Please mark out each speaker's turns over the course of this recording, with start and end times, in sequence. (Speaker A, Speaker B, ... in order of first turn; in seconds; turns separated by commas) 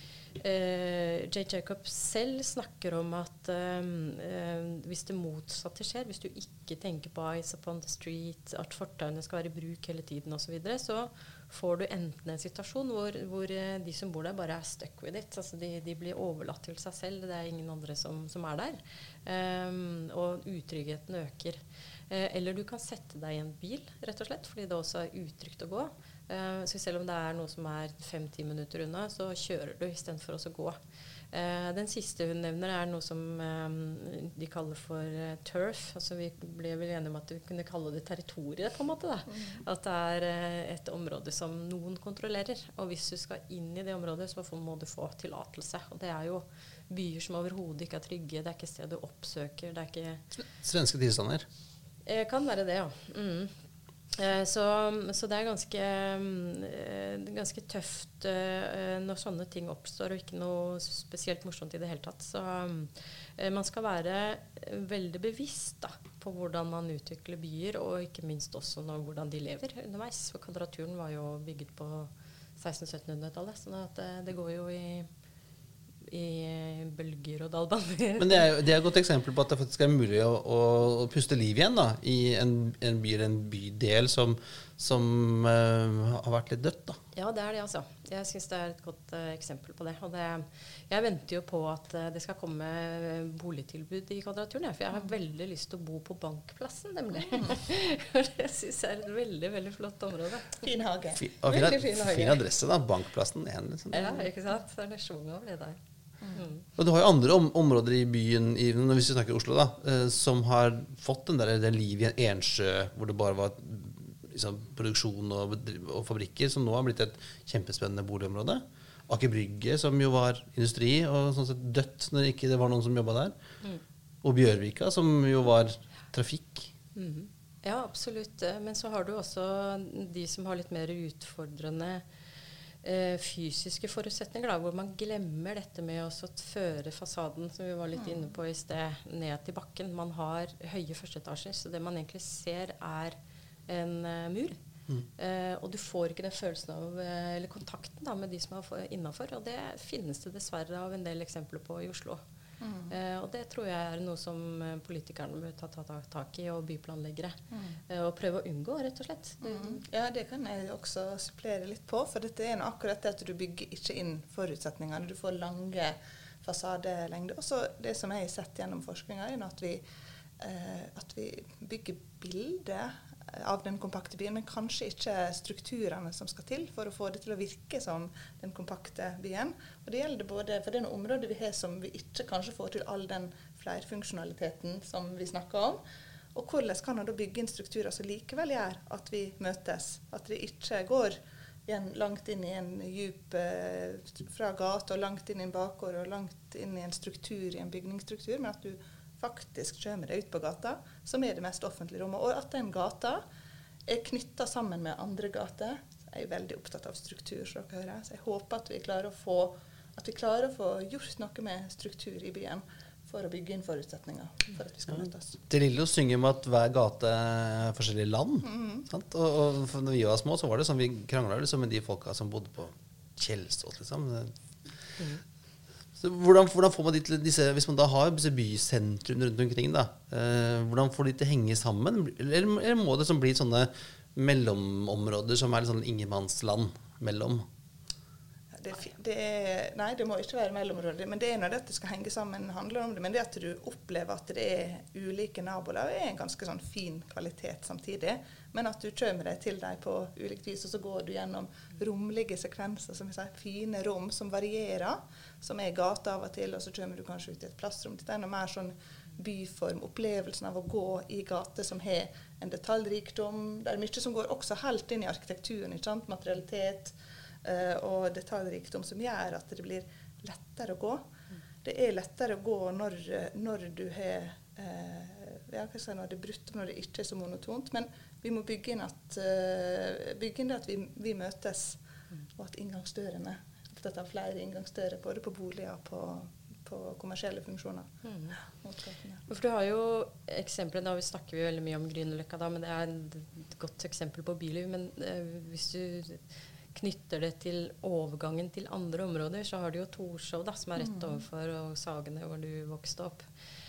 Speaker A: 0.4-30.8, Speaker A: 31.3-50.2, Speaker B: 50.4-51.5, Speaker A: 52.1-53.5, Speaker A: 54.1-75.1, Speaker A: 76.0-78.5, Speaker B: 78.2-87.0, Speaker A: 87.2-100.7, Speaker C: 100.6-101.2, Speaker B: 101.2-104.2, Speaker A: 101.4-102.4, Speaker A: 103.9-105.8, Speaker A: 106.3-106.7, Speaker B: 106.8-123.3, Speaker B: 124.2-126.7, Speaker A: 127.0-132.1, Speaker A: 132.8-143.2, Speaker C: 138.0-138.3, Speaker A: 143.7-144.6, Speaker A: 145.2-152.2, Speaker C: 152.6-152.9, Speaker A: 152.9-159.8, Speaker C: 159.4-169.8, Speaker C: 170.4-185.8, Speaker C: 186.3-203.2, Speaker C: 203.9-215.4, Speaker B: 215.5-224.3, Speaker C: 218.4-218.9, Speaker B: 226.0-237.5, Speaker C: 238.6-271.1, Speaker C: 271.6-281.8, Speaker C: 282.4-287.9, Speaker A: 288.1-288.4, Speaker C: 288.6-289.2, Speaker A: 289.3-303.3